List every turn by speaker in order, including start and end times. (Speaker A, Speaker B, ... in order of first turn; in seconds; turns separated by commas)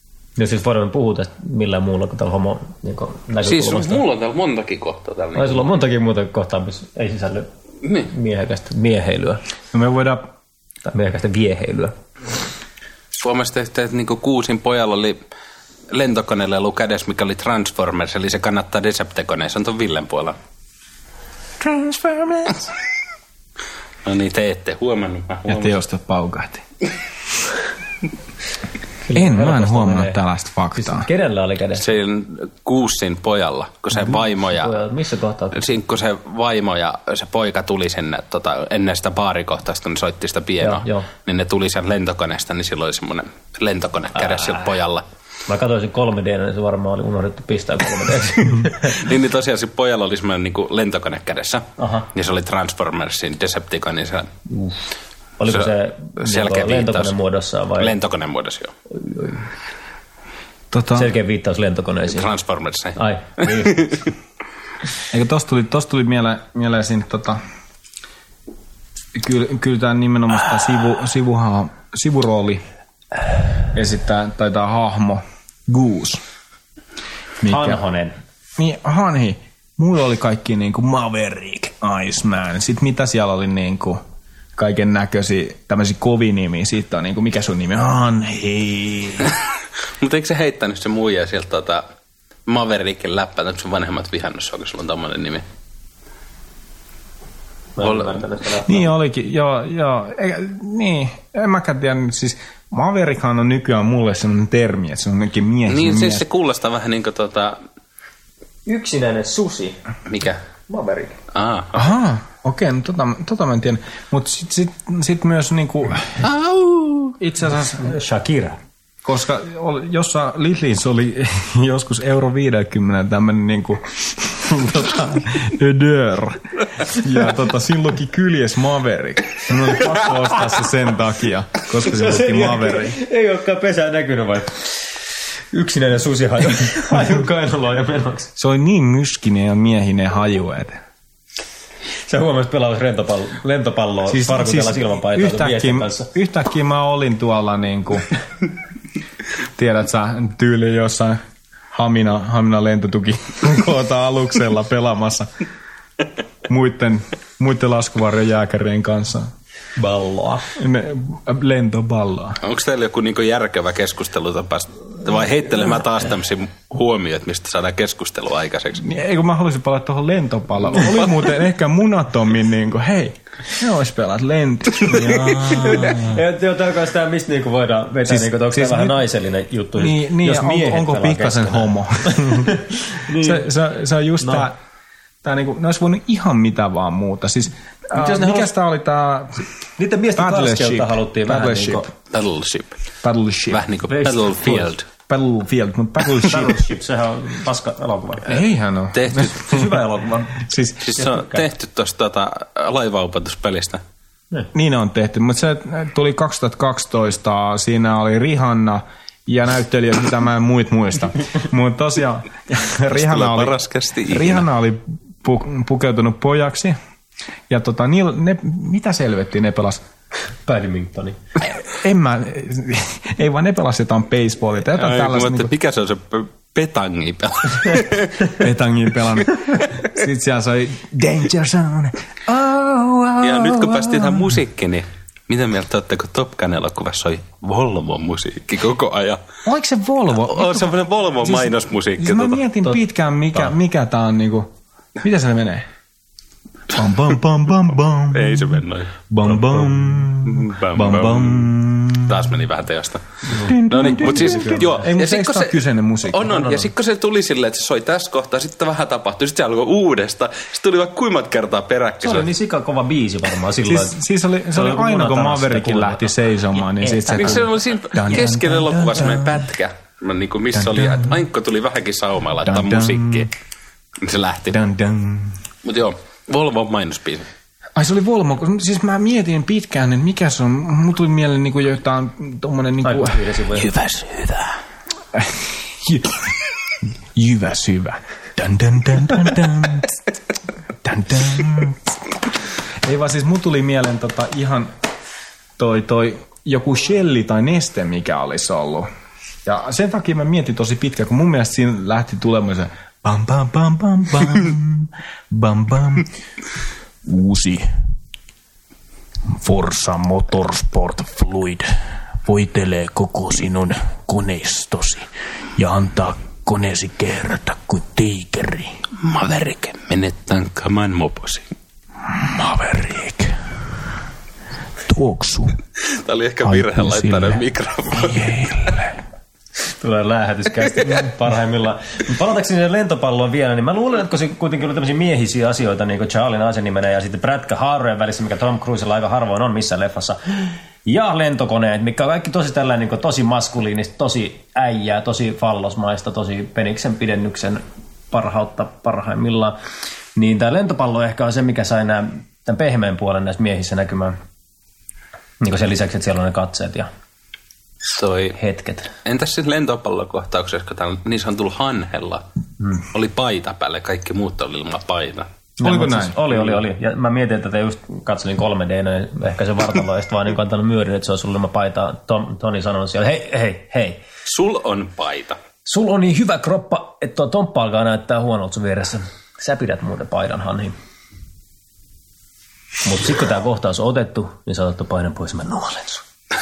Speaker A: 0.4-4.0, Speaker B: 3.4-5.7, Speaker A: 5.3-7.5, Speaker B: 7.8-8.1, Speaker A: 8.1-9.4, Speaker C: 9.7-10.3, Speaker A: 10.8-11.9, Speaker B: 13.2-15.2, Speaker B: 15.9-20.4, Speaker C: 21.6-22.7, Speaker B: 24.1-25.8, Speaker C: 25.5-26.6, Speaker A: 29.0-30.2, Speaker C: 29.1-31.1, Speaker A: 30.8-31.8, Speaker B: 31.8-34.8, Speaker A: 33.9-35.6, Speaker B: 35.5-45.0, Speaker A: 40.6-41.1, Speaker A: 44.3-44.6, Speaker A: 45.5-49.0, Speaker B: 48.8-54.3, Speaker A: 51.8-52.1, Speaker A: 54.5-54.8, Speaker A: 55.4-57.9, Speaker B: 55.5-57.1, Speaker B: 57.8-58.7, Speaker A: 58.9-59.4, Speaker C: 60.7-61.1, Speaker A: 61.0-62.3, Speaker B: 62.1-64.0, Speaker A: 63.0-64.0, Speaker C: 65.1-67.4, Speaker C: 69.2-72.6, Speaker C: 73.7-76.2, Speaker C: 77.4-77.8, Speaker A: 77.5-78.2, Speaker C: 78.6-84.0, Speaker C: 84.6-89.3, Speaker B: 90.0-91.8, Speaker B: 92.5-95.4, Speaker A: 97.8-98.9, Speaker B: 97.8-98.2, Speaker C: 98.7-106.2, Speaker B: 105.7-107.6, Speaker A: 108.7-109.8, Speaker B: 110.1-110.4, Speaker A: 110.7-111.2, Speaker B: 111.3-111.9, Speaker C: 111.7-116.2, Speaker B: 116.2-117.2, Speaker C: 117.2-118.0, Speaker A: 117.8-118.6, Speaker C: 119.0-133.0, Speaker A: 131.8-134.8, Speaker A: 135.5-138.3, Speaker C: 138.4-140.8, Speaker A: 142.1-146.1, Speaker C: 144.1-148.1, Speaker C: 149.6-151.2, Speaker C: 151.7-155.3, Speaker C: 156.5-159.3, Speaker A: 159.8-160.5, Speaker C: 160.6-162.4, Speaker B: 162.4-168.8, Speaker C: 168.8-176.2, Speaker B: 174.9-175.8, Speaker A: 175.5-183.5, Speaker C: 178.1-179.0, Speaker C: 179.8-184.6, Speaker C: 185.2-189.4, Speaker A: 187.9-188.5, Speaker A: 189.8-191.9, Speaker C: 190.1-191.9, Speaker B: 192.1-192.8, Speaker C: 193.0-193.6, Speaker B: 193.5-194.9, Speaker A: 193.9-194.7, Speaker C: 195.1-196.6, Speaker A: 196.3-198.3, Speaker C: 198.3-199.8, Speaker B: 198.9-199.4, Speaker A: 199.4-200.4, Speaker C: 200.3-201.0, Speaker B: 200.8-203.8, Speaker A: 201.0-201.4, Speaker C: 204.5-216.8, Speaker B: 212.9-214.4, Speaker C: 217.5-219.8, Speaker A: 220.5-221.2, Speaker C: 221.4-225.5, Speaker B: 224.8-228.3, Speaker C: 228.3-234.4, Speaker B: 233.2-239.2, Speaker C: 239.4-245.7, Speaker B: 240.2-242.4, Speaker C: 246.7-252.2, Speaker B: 248.1-248.9, Speaker B: 250.2-253.0, Speaker C: 253.3-256.4, Speaker B: 253.7-262.3, Speaker A: 254.1-254.8, Speaker A: 256.3-256.6, Speaker A: 262.0-264.0, Speaker C: 263.6-269.5, Speaker A: 264.5-267.5, Speaker B: 267.2-273.3, Speaker C: 270.5-271.2, Speaker C: 272.4-273.3, Speaker B: 274.0-274.6, Speaker C: 274.5-275.4, Speaker B: 275.6-277.3, Speaker C: 277.8-284.5, Speaker A: 282.8-283.7, Speaker C: 285.1-286.4, Speaker C: 287.1-290.0, Speaker C: 290.8-291.8, Speaker C: 292.8-294.7, Speaker C: 295.6-298.9, Speaker C: 299.4-306.1, Speaker C: 307.0-307.6, Speaker C: 309.3-311.7, Speaker C: 312.2-318.8, Speaker B: 319.0-321.5, Speaker C: 322.1-323.3, Speaker C: 324.9-325.6, Speaker B: 325.9-328.7, Speaker C: 326.4-329.0, Speaker A: 329.8-349.6, Speaker A: 350.2-354.2, Speaker A: 355.4-356.9, Speaker B: 357.9-358.4, Speaker A: 358.4-358.9, Speaker B: 359.1-362.2, Speaker B: 362.8-365.3, Speaker A: 365.6-374.0, Speaker C: 365.6-366.3, Speaker B: 374.3-375.4, Speaker A: 375.6-380.8, Speaker A: 382.8-386.0